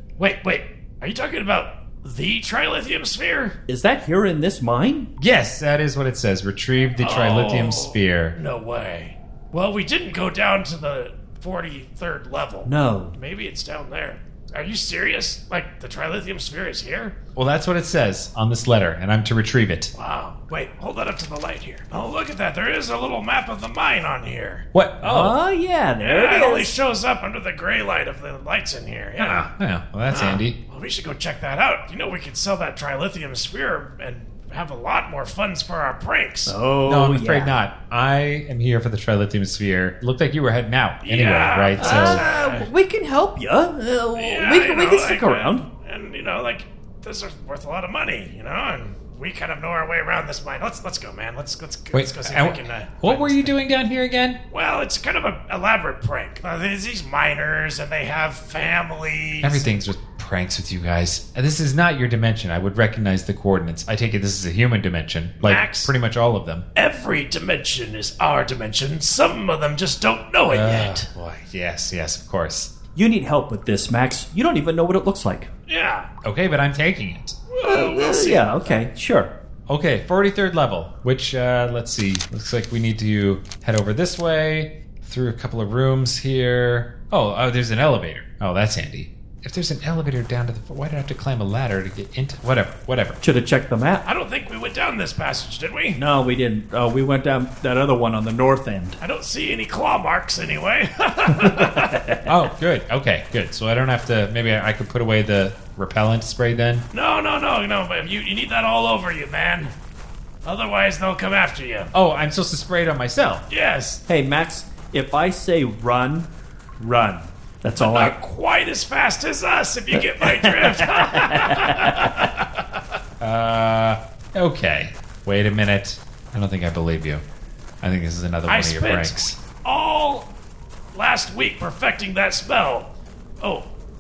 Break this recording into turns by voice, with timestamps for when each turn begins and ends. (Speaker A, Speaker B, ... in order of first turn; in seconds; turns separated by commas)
Speaker A: 0.2-3.6, Speaker B: 3.7-5.1, Speaker C: 5.2-8.3, Speaker A: 7.0-17.1, Speaker B: 12.7-13.2, Speaker C: 17.4-19.9, Speaker A: 19.9-24.6, Speaker C: 24.7-25.4, Speaker B: 25.0-26.7, Speaker A: 26.0-29.5, Speaker C: 29.2-30.6, Speaker A: 30.1-36.5, Speaker B: 36.5-37.5, Speaker C: 36.9-42.2, Speaker A: 41.0-42.7, Speaker B: 41.8-45.6, Speaker A: 44.2-53.6, Speaker C: 51.9-54.4, Speaker A: 54.5-59.6, Speaker C: 59.4-66.7, Speaker A: 65.4-65.9, Speaker A: 66.8-71.1, Speaker C: 70.5-72.7, Speaker B: 73.0-75.5, Speaker A: 75.7-76.1, Speaker C: 76.2-77.4, Speaker A: 77.5-78.8, Speaker B: 77.7-79.3, Speaker C: 79.7-93.2, Speaker B: 93.2-94.0, Speaker A: 94.0-96.0, Speaker B: 96.0-99.0, Speaker A: 99.0-102.0, Speaker B: 101.4-102.3, Speaker C: 102.3-106.8, Speaker A: 106.9-109.7, Speaker A: 110.5-111.9, Speaker C: 111.9-113.4, Speaker A: 113.5-114.0, Speaker B: 114.1-116.3, Speaker B: 116.8-118.1, Speaker A: 117.8-122.6, Speaker B: 119.9-122.3, Speaker C: 123.2-127.2, Speaker C: 127.8-129.4, Speaker A: 128.5-130.3, Speaker A: 130.9-132.9, Speaker A: 133.4-133.7